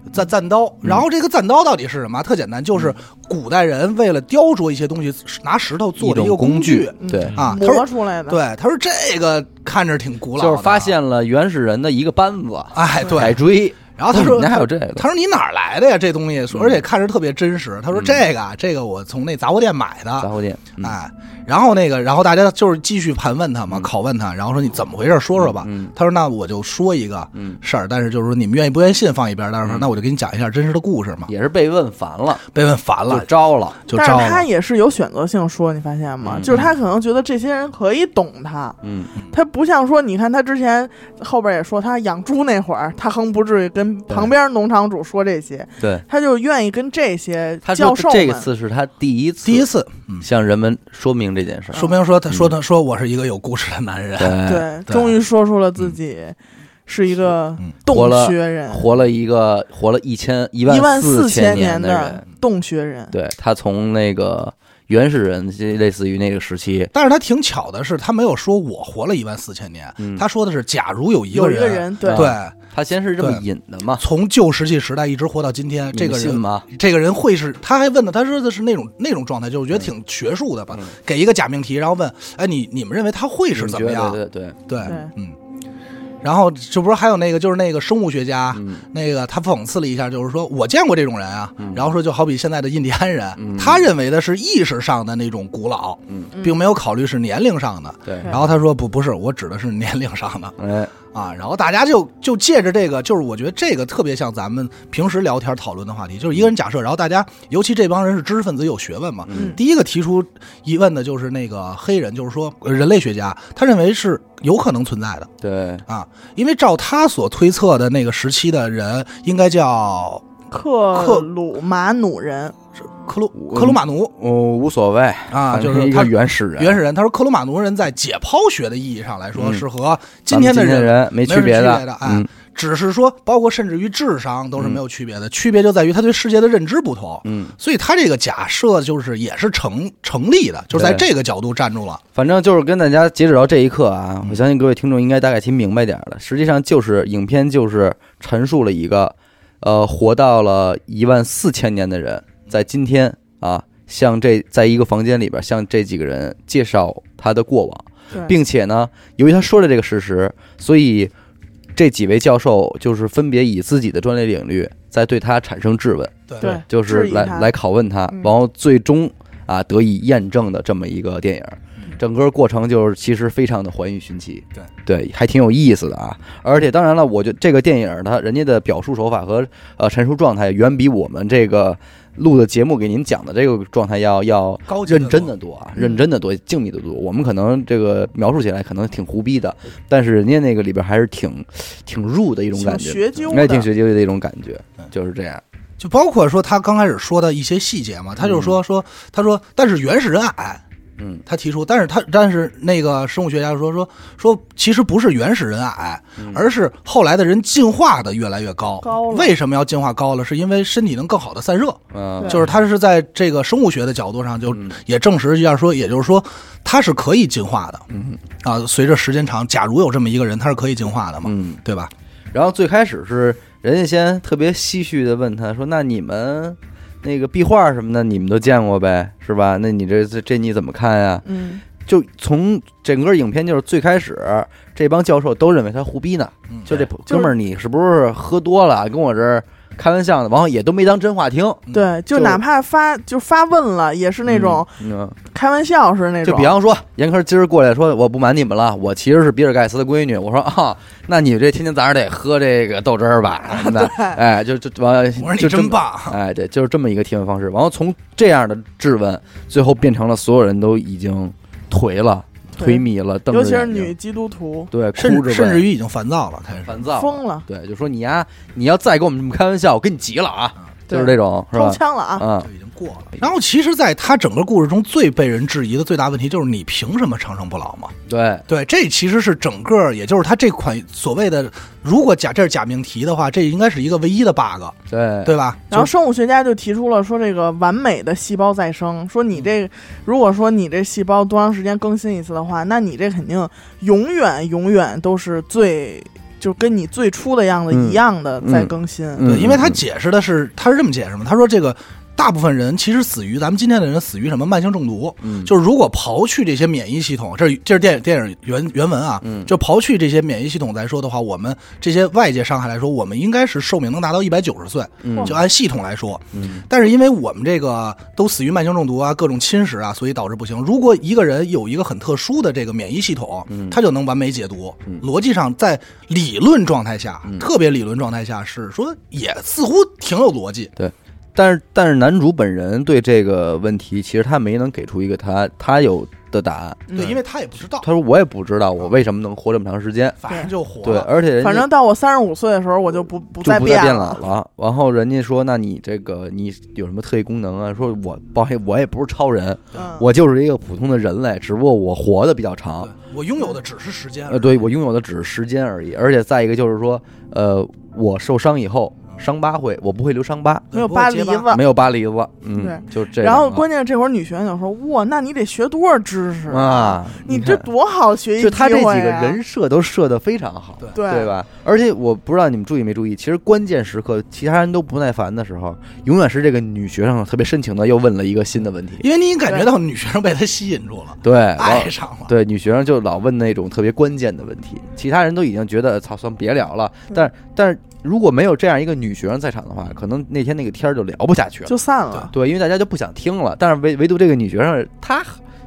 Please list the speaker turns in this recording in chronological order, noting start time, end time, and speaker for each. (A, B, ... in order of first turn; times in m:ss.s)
0:00.1-0:11.0 A
0:06.0-0:07.4 B
0:07.0-0:08.4 C
0:10.4-0:15.1 B
0:12.8-0:13.4 A
0:14.0-0:31.3 A
0:16.5-0:16.8 B
0:17.9-0:18.2 B
0:20.2-0:21.0 B
0:25.4-0:25.9 B
0:27.3-0:27.6 B
0:29.6-0:29.9 B
0:31.3-0:32.4 B
0:32.5-0:33.3 A
0:33.1-0:33.8 B
0:33.9-0:34.5 A
0:33.9-0:38.8 C
0:36.2-0:36.6 B
0:36.4-0:36.7 A
0:38.8-0:39.1 B
0:39.3-0:48.5 C
0:45.8-0:46.0 B
0:47.6-0:49.7 B
0:49.4-0:50.3 A
0:50.2-0:52.5 B
0:51.7-0:52.0 C
0:51.7-0:55.2 A
0:54.2-0:54.7 B
0:54.4-0:58.9 C
0:57.9-1:02.2 B
1:00.7-1:03.1 C
1:03.1-1:06.9 B
1:06.9-1:12.5 A
1:10.0-1:10.2 B
1:11.3-1:12.4 C
1:12.0-1:14.0 B
1:14.0-1:25.4 A
1:15.9-1:16.7 B
1:23.5-1:24.8 B
1:24.8-1:25.1 C
1:26.2-1:40.6 A
1:28.5-1:28.8 B
1:31.6-1:32.0 B
1:33.4-1:33.9 B
1:38.0-1:38.4 B
1:40.6-1:40.9 B
1:41.1-1:55.3 A
1:49.3-1:49.5 B
1:49.3-1:49.6 C
1:55.4-1:55.8 B
1:55.9-2:00.2 A
2:00.5-2:02.6 C
2:00.9-2:01.3 A
2:03.0-2:04.1 A
2:03.3-2:06.8 B
2:05.3-2:22.0 A
2:09.4-2:09.6 B
2:10.3-2:12.3 B
2:14.6-2:14.8 B
2:17.2-2:17.5 B
2:20.7-2:21.1 B
2:22.2-2:41.1 B
2:41.8-3:15.4 B
2:46.4-2:47.5 C
3:04.7-3:05.3 A
3:12.6-3:13.7 C
3:15.8-3:20.6 A
3:18.2-3:18.6 B
3:21.0-3:21.2 B
3:21.2-3:37.8 A
3:26.2-3:26.4 B
3:28.8-3:29.4 C
3:31.9-3:32.5 B
3:34.5-3:34.8 B
3:37.9-3:38.2 B
3:38.4-3:41.9 A
3:41.2-3:41.6 B
3:42.3-3:51.2 B
3:51.2-3:51.6 C
3:51.8-4:02.4 B
3:56.5-3:56.9 A
3:57.1-3:57.3 C
4:01.7-4:04.7 C
4:04.2-4:05.2 B
4:05.3-4:06.6 C
4:06.2-4:23.9 B
4:13.6-4:14.2 C
4:15.2-4:16.2 A
4:22.6-4:24.7 C
4:24.7-4:25.7 B
4:25.0-4:26.8 A
4:26.6-4:32.5 B
4:26.9-4:27.5 C
4:30.9-4:32.3 C
4:32.4-4:37.9 A
4:38.1-4:38.5 B
4:38.5-4:45.7 A
4:44.9-4:45.9 B
4:45.7-4:59.3 C
4:57.7-4:59.8 B
4:59.2-5:30.7 A
5:05.2-5:05.5 B
5:09.2-5:09.5 B
5:15.0-5:15.4 B
5:15.1-5:15.4 C
5:16.3-5:16.6 B
5:23.5-5:23.8 B
5:30.8-5:37.2 B
5:36.9-5:37.2 C
5:36.9-5:37.9 A
5:37.8-5:40.2 B
5:40.2-5:41.1 A
5:40.8-5:41.7 B
5:41.4-5:44.2 C
5:43.4-5:52.9 B
5:49.7-5:50.1 C
5:52.8-5:54.6 A
5:54.3-6:00.7 B
6:00.7-6:01.5 A
6:00.7-6:01.6 C
6:01.5-6:03.6 B
6:02.6-6:09.4 C
6:06.5-6:07.7 B
6:08.4-6:19.0 B
6:10.9-6:11.3 C
6:19.0-6:22.3 A
6:21.2-6:31.7 B
6:31.6-6:32.3 C
6:32.3-6:35.4 B